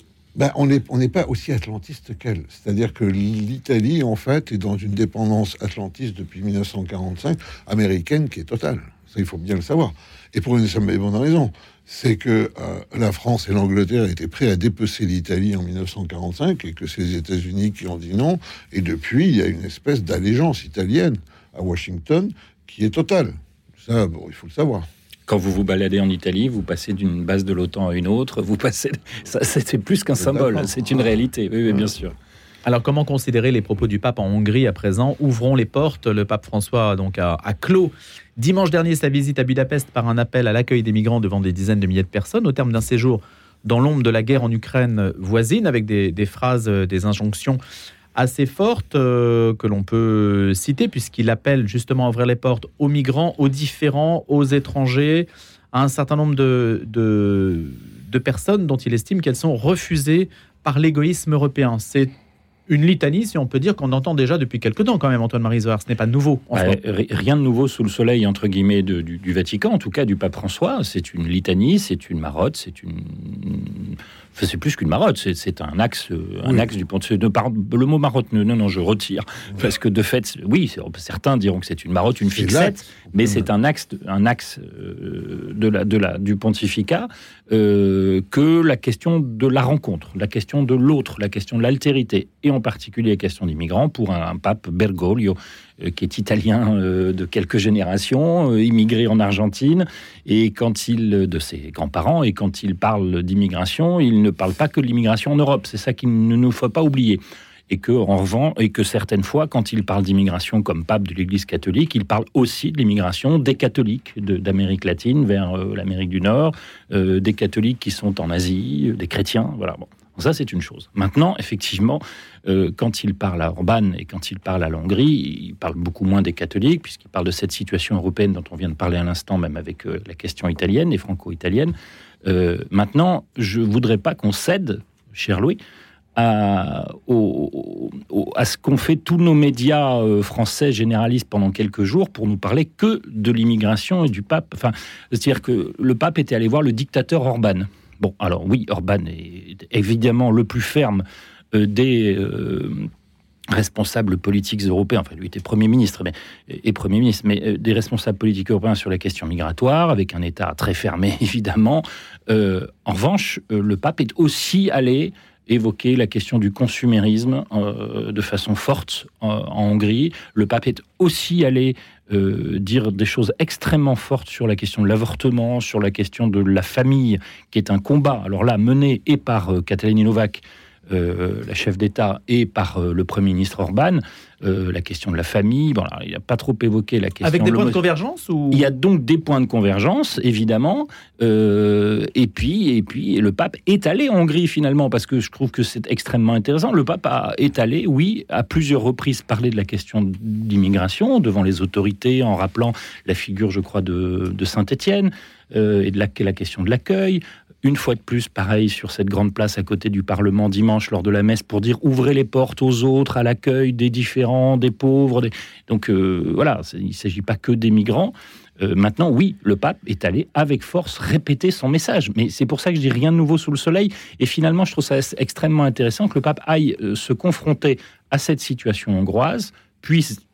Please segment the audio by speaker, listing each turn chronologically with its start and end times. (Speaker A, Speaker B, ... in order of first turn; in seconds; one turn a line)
Speaker A: 0.3-24.9
Speaker B: 25.3-32.1
Speaker A: 30.2-31.1
Speaker C: 32.6-47.6
Speaker C: 48.1-62.1
Speaker C: 62.7-66.8
Speaker B: 66.5-135.6
Speaker A: 82.3-83.5
Speaker B: 136.2-152.9
Speaker B: 153.5-187.8
Speaker C: 187.2-188.7
Speaker B: 188.5-230.2